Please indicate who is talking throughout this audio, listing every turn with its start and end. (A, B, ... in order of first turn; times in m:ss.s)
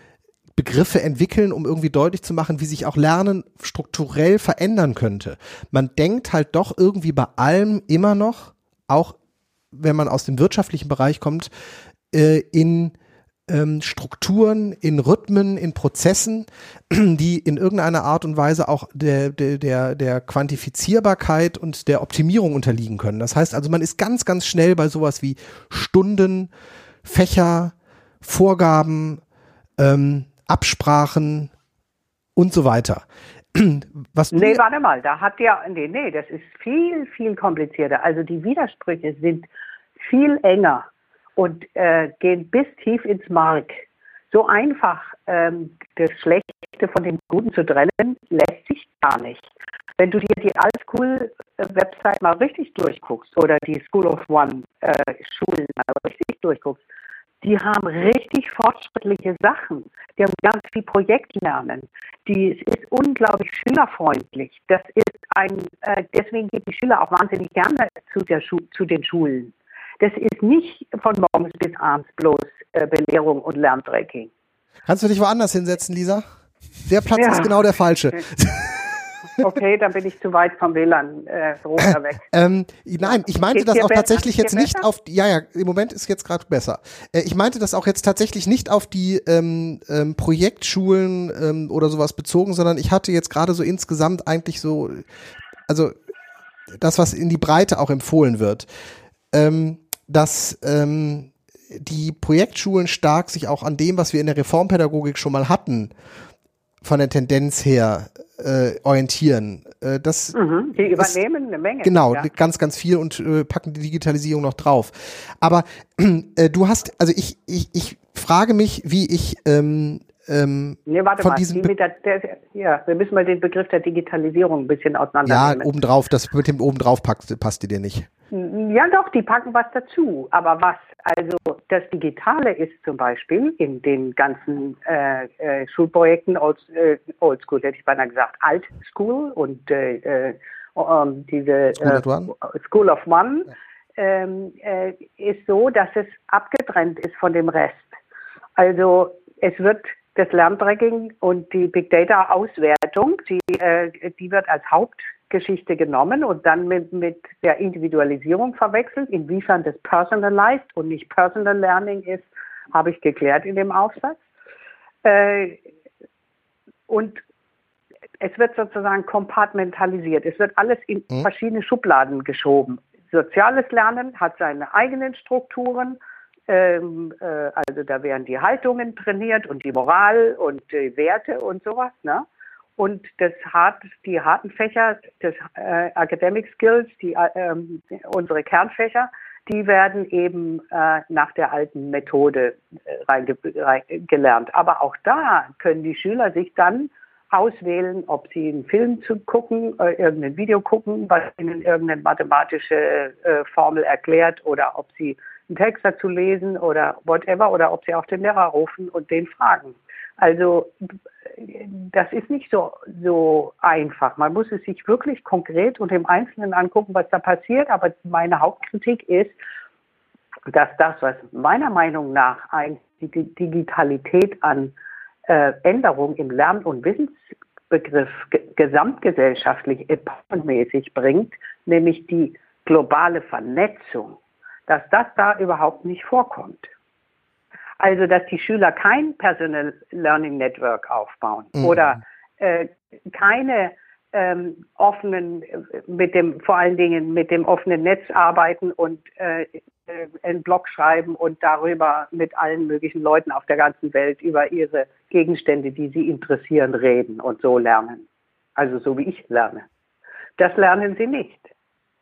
0:00.6-0:09.2 A
0:09.7-0:11.5 A
0:12.1-0:12.9 A
0:13.5-0:26.5 A
0:27.0-0:29.2 A
0:29.8-0:31.5 A
0:32.4-0:34.6 A
0:34.3-0:39.5 B
0:40.0-0:56.8 B
0:57.4-1:14.3 B
1:14.9-1:16.2 A
1:16.9-1:18.9 A
1:17.1-1:17.5 B
1:19.4-1:22.3 B
1:22.3-1:35.0 A
1:23.0-1:24.9 B
1:35.7-1:35.9 A
1:36.7-1:38.7 A
1:39.3-1:45.9 A
1:46.8-1:51.2 A
1:50.4-1:52.3 B
1:51.8-2:01.7 A
2:00.9-2:05.7 B
2:05.3-2:08.1 A
2:08.3-2:28.0 B
2:21.8-2:22.3 A
2:28.6-2:44.2 B
2:45.0-2:45.6 B
2:46.9-2:47.2 B
2:48.2-3:30.7 B
3:31.4-3:39.4 B
3:40.5-3:44.7 B
3:45.3-3:47.2 B
3:47.7-3:56.7 B
3:57.8-4:18.0 B
4:18.6-4:19.6 B
4:20.4-4:21.5 B